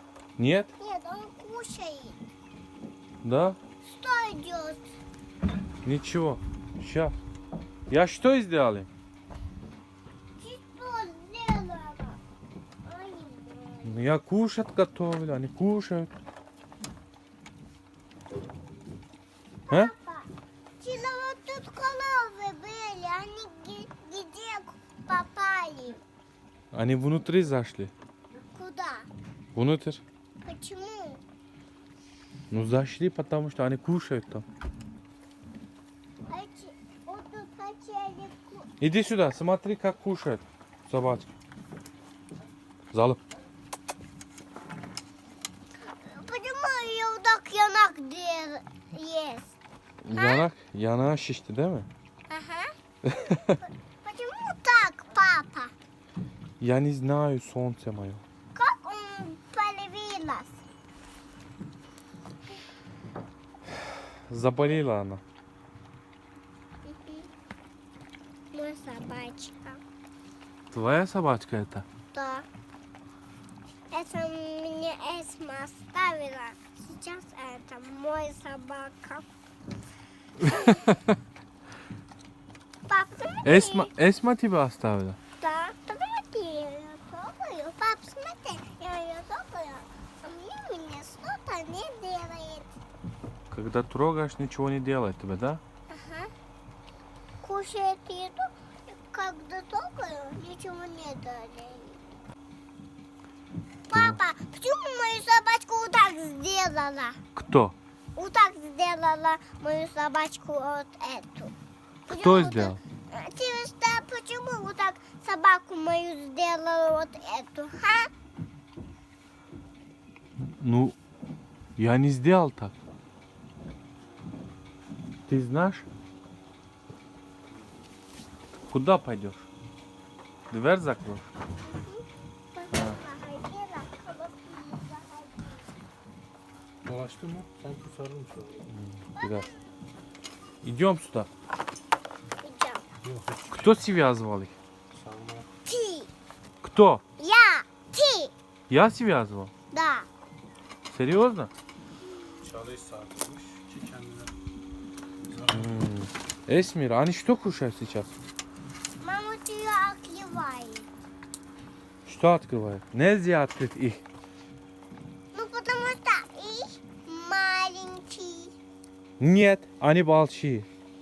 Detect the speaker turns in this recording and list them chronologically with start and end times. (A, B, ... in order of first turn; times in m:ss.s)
0:00.4-0:00.7 A
0:00.8-0:02.2 B
0:03.2-0:03.6 A
0:03.8-0:04.8 B
0:05.8-0:07.2 A
0:07.9-0:08.9 A
0:10.4-0:12.2 B
0:12.8-0:14.0 B
0:13.8-0:16.1 A
0:19.7-0:26.0 B
0:26.7-0:27.9 A
0:28.5-0:29.1 B
0:29.5-0:30.0 A
0:30.4-0:31.2 B
0:32.5-0:34.4 A
0:36.3-0:38.7 B
0:38.8-0:41.3 A
0:42.9-0:43.2 A
0:46.0-0:49.5 B
0:50.0-0:51.9 A
0:50.1-0:50.5 B
0:52.3-0:52.7 B
0:53.0-0:53.6 A
0:54.0-0:55.7 B
0:56.6-0:58.2 A
0:58.5-1:00.6 B
1:04.3-1:05.2 A
1:06.8-1:07.3 B
1:08.5-1:09.8 B
1:10.7-1:11.8 A
1:12.1-1:12.4 B
1:13.9-1:19.2 B
1:20.4-1:21.1 A
1:22.9-1:23.9 B
1:23.4-1:25.2 A
1:25.4-1:32.7 B
1:33.5-1:35.6 A
1:35.9-1:36.3 B
1:37.4-1:42.0 B
1:43.9-1:47.2 B
1:43.9-1:44.2 A
1:47.4-1:47.8 A
1:48.2-1:51.5 B
1:52.1-1:58.1 B
1:52.1-1:52.8 A
2:00.4-2:01.0 A
2:01.8-2:02.8 A
2:05.3-2:05.8 A
2:08.7-2:09.5 A
2:10.5-2:11.2 A
2:11.6-2:15.7 B
2:16.8-2:18.6 C
2:18.7-2:19.5 A
2:19.2-2:19.5 B
2:20.6-2:21.3 A
2:22.4-2:22.8 B
2:23.0-2:23.4 C
2:23.5-2:24.6 A
2:24.9-2:25.5 C
2:25.6-2:26.1 B
2:26.6-2:27.0 A
2:27.2-2:28.3 B
2:28.7-2:29.5 A
2:29.7-2:30.1 B
2:30.9-2:31.5 A
2:32.2-2:32.5 B
2:32.4-2:34.3 C
2:35.5-2:38.1 A
2:39.0-2:40.9 B
2:42.0-2:44.0 A
2:45.3-2:48.5 B
2:49.2-2:50.7 A